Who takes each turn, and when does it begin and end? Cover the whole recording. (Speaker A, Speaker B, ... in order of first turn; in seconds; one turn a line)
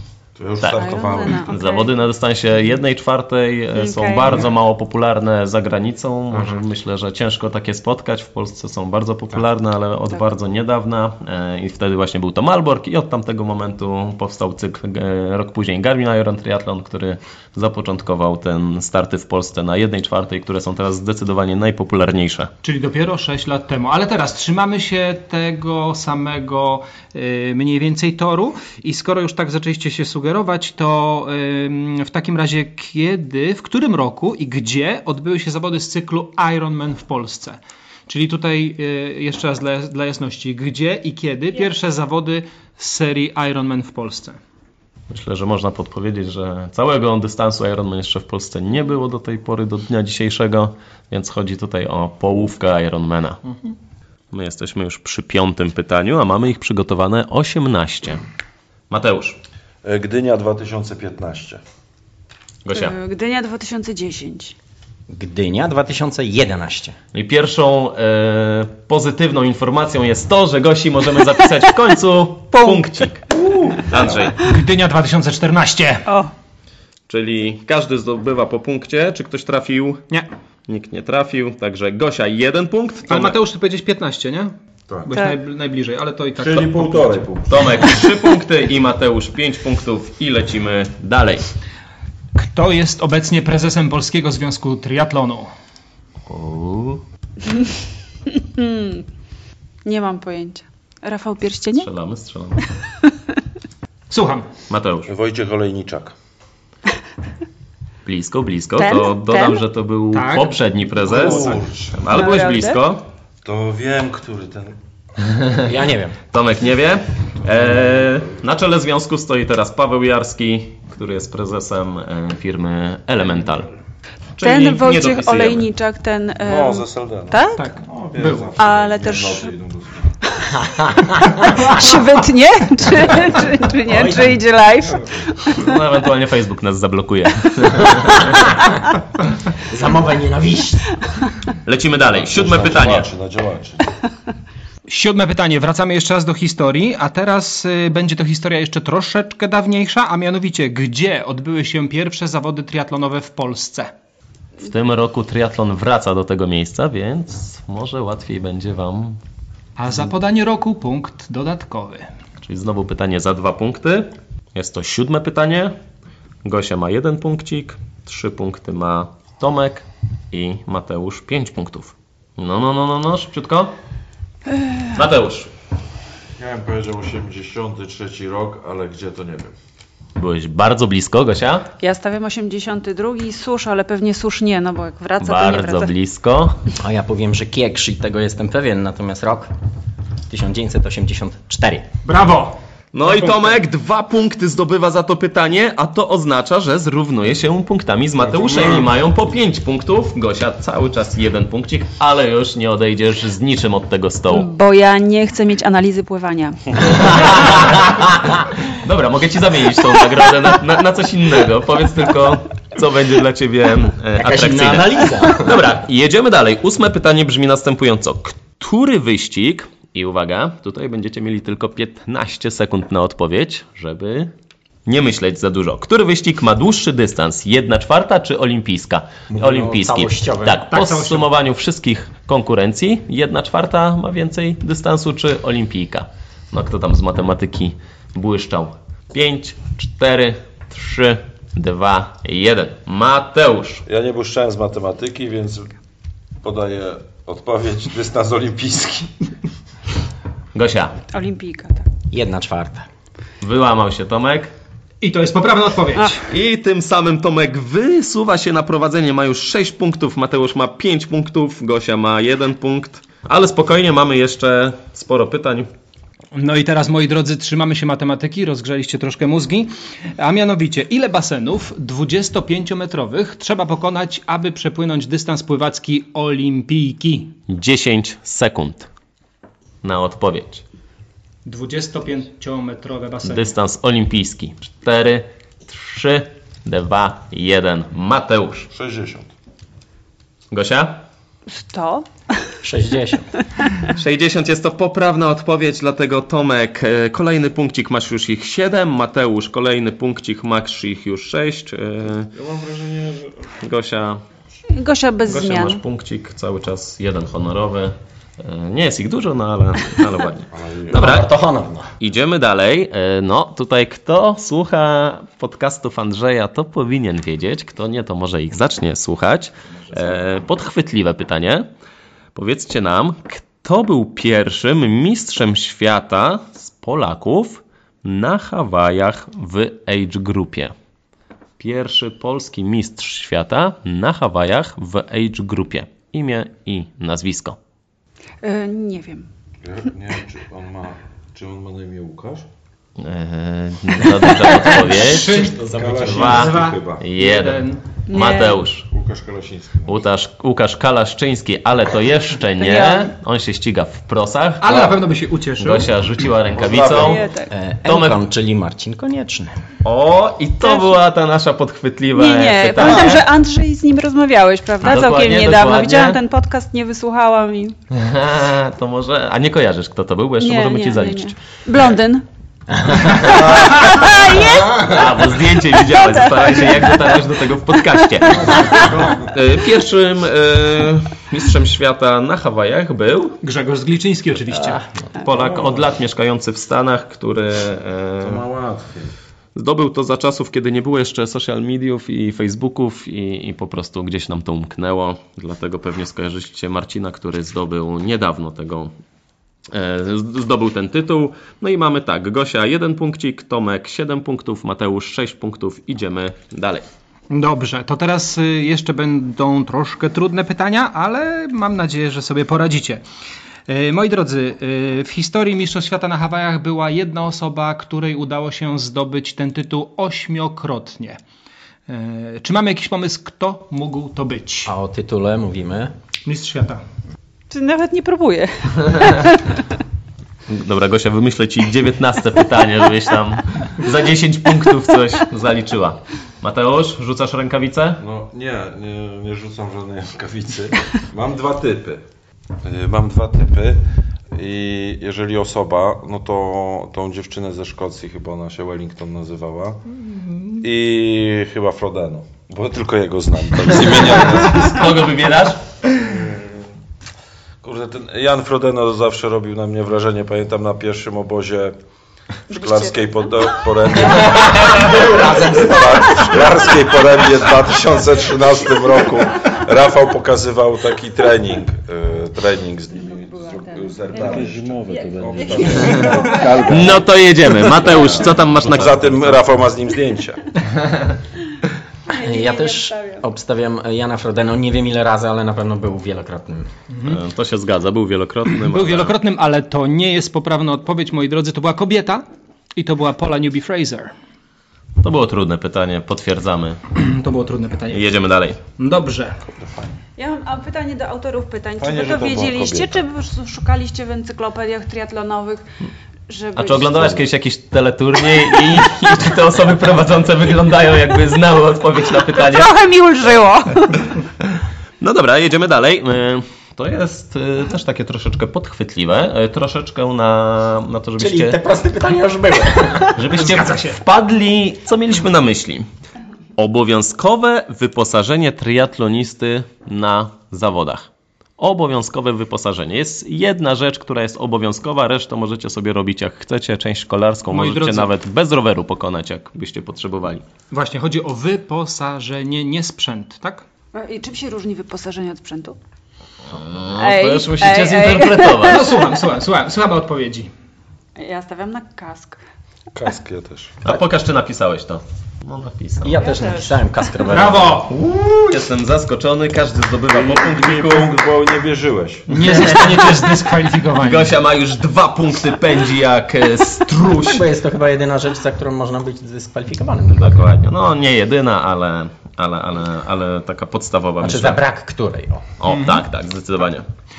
Speaker A: 0.4-1.6
Speaker B: 0.6-22.5
Speaker C: 0.6-1.9
Speaker C: 3.7-4.3
Speaker D: 22.6-44.4
Speaker B: 45.1-53.4
Speaker B: 54.3-58.2
Speaker B: 58.9-59.4
Speaker A: 59.8-61.6
Speaker B: 62.6-62.9
Speaker C: 62.7-64.5
Speaker E: 65.1-67.0
Speaker B: 67.1-73.3
Speaker A: 73.4-74.3
Speaker B: 73.9-74.4
Speaker D: 74.4-76.1
Speaker B: 77.1-80.1
Speaker B: 80.7-83.4
Speaker D: 83.1-87.2
Speaker A: 86.4-88.0
Speaker B: 87.5-91.5
Speaker D: 92.3-95.5
Speaker B: 96.2-97.0
Speaker C: 98.3-99.0
Speaker C: 99.8-101.9
Speaker B: 101.8-102.8
Speaker D: 104.1-104.5
Speaker B: 104.7-105.1
Speaker A: 105.0-106.1
Speaker B: 108.0-113.0
Speaker C: 108.8-109.6
Speaker D: 110.1-110.5
Speaker A: 111.0-112.2
Speaker C: 112.1-112.8
Speaker A: 113.4-114.8
Speaker E: 115.6-116.2
Speaker B: 116.3-123.7
Speaker B: 124.4-125.7
Speaker C: 124.4-127.7
Speaker A: 126.4-130.1
Speaker D: 127.5-128.5
Speaker C: 128.6-129.5
Speaker E: 130.5-131.7
Speaker C: 131.2-135.1
Speaker E: 133.9-134.4
Speaker B: 135.5-138.5
Speaker E: 139.7-140.9
Speaker B: 141.6-143.1
Speaker A: 142.0-143.9
Speaker D: 144.9-153.9
Speaker B: 154.6-159.2
Speaker D: 159.8-162.1
Speaker B: 162.4-165.8
Speaker B: 166.4-173.7
Speaker B: 174.9-175.5
Speaker A: 176.4-179.5
Speaker B: 180.2-181.7
Speaker C: 181.8-185.9
Speaker B: 185.2-186.6
Speaker E: 186.8-189.5
Speaker E: 190.3-191.9
Speaker D: 192.0-193.5
Speaker B: 192.9-204.5
Speaker A: 198.3-198.9
Speaker C: 204.3-207.1
Speaker B: 206.8-224.3
Speaker E: 214.2-215.7
Speaker B: 224.9-243.8
Speaker E: 229.3-230.7
Speaker D: 230.7-231.2
Speaker A: 243.9-245.7
Speaker A: 246.4-249.3
Speaker B: 250.5-251.0
Speaker C: 251.1-251.9
Speaker E: 252.1-252.9
Speaker B: 253.4-254.5
Speaker D: 255.0-256.2
Speaker B: 256.3-265.7
Speaker D: 266.4-277.4
Speaker B: 277.5-278.9
Speaker B: 279.8-280.6
Speaker D: 281.5-283.5
Speaker B: 283.2-288.7
Speaker A: 288.7-289.3
Speaker B: 290.5-291.0
Speaker C: 291.5-292.1
Speaker E: 292.6-293.3
Speaker B: 293.9-302.3
Speaker A: 302.3-303.5
Speaker B: 303.6-304.2
Speaker C: 304.7-305.8
Speaker B: 305.3-311.3
Speaker A: 310.5-311.0
Speaker E: 310.9-311.9
Speaker B: 312.0-321.7
Speaker B: 322.3-330.7
Speaker B: 331.6-337.6
Speaker C: 338.4-339.3
Speaker A: 339.6-342.5
Speaker B: 343.0-345.5
Speaker D: 344.7-345.6
Speaker E: 345.3-346.4
Speaker A: 345.6-347.1
Speaker B: 346.0-348.9
Speaker D: 346.1-347.8
Speaker C: 348.1-348.6
Speaker A: 348.9-350.0
Speaker B: 349.9-355.0
Speaker C: 352.6-353.1
Speaker D: 354.6-355.9
Speaker B: 355.6-357.3
Speaker A: 356.5-357.2
Speaker C: 356.9-357.5
Speaker E: 357.5-359.6
Speaker B: 357.8-358.2
Speaker B: 359.8-363.2
Speaker C: 360.6-360.9
Speaker C: 362.1-367.8
Speaker B: 364.8-366.2
Speaker B: 367.9-371.4
Speaker C: 370.4-372.2
Speaker B: 373.0-383.4
Speaker C: 373.1-375.0
Speaker C: 376.0-377.0
Speaker C: 378.4-378.9
Speaker E: 378.6-379.1
Speaker D: 383.4-384.8
Speaker B: 385.2-388.4
Speaker A: 385.3-385.9
Speaker A: 388.2-389.1
Speaker B: 389.5-398.9
Speaker B: 399.7-406.9
Speaker D: 407.3-413.0
Speaker D: 413.7-421.2
Speaker D: 421.9-424.7
Speaker E: 424.7-425.9
Speaker D: 426.2-426.8
Speaker C: 427.5-429.4
Speaker B: 428.9-429.3
Speaker B: 430.5-438.0
Speaker A: 438.0-442.0
Speaker A: 442.6-443.8
Speaker A: 444.3-450.0
Speaker A: 450.5-454.9
Speaker B: 453.8-455.6
Speaker A: 456.0-456.5
Speaker A: 457.6-461.8
Speaker A: 462.5-480.5
Speaker C: 462.5-462.9
Speaker B: 464.2-466.5
Speaker C: 475.1-476.2
Speaker B: 475.6-479.5
Speaker C: 482.1-483.2
Speaker E: 482.1-486.7
Speaker D: 486.9-487.2
Speaker B: 487.0-489.1
Speaker D: 488.7-492.2
Speaker D: 492.8-494.1
Speaker B: 495.0-496.8
Speaker D: 496.9-498.1
Speaker B: 497.9-498.6
Speaker D: 498.8-499.4
Speaker A: 499.5-499.9
Speaker C: 500.2-505.6
Speaker A: 501.8-503.0
Speaker C: 506.3-507.2
Speaker B: 506.6-512.7
Speaker C: 512.3-514.1
Speaker B: 515.0-521.6
Speaker E: 521.2-523.4
Speaker B: 523.1-525.9
Speaker D: 523.4-524.0
Speaker B: 526.5-540.4
Speaker D: 537.5-538.1
Speaker D: 540.7-543.6
Speaker C: 543.9-545.8
Speaker B: 546.5-549.0
Speaker C: 547.0-548.9
Speaker D: 548.6-550.5
Speaker C: 551.2-552.4
Speaker A: 553.0-553.7
Speaker B: 553.8-556.3
Speaker E: 556.0-558.3
Speaker C: 556.2-556.8
Speaker D: 557.3-558.0
Speaker B: 558.4-561.3
Speaker A: 560.1-562.3
Speaker D: 562.3-564.4
Speaker B: 564.0-567.4
Speaker E: 567.0-570.5
Speaker B: 570.1-574.6
Speaker E: 574.2-575.5
Speaker B: 575.6-576.9
Speaker D: 575.7-576.0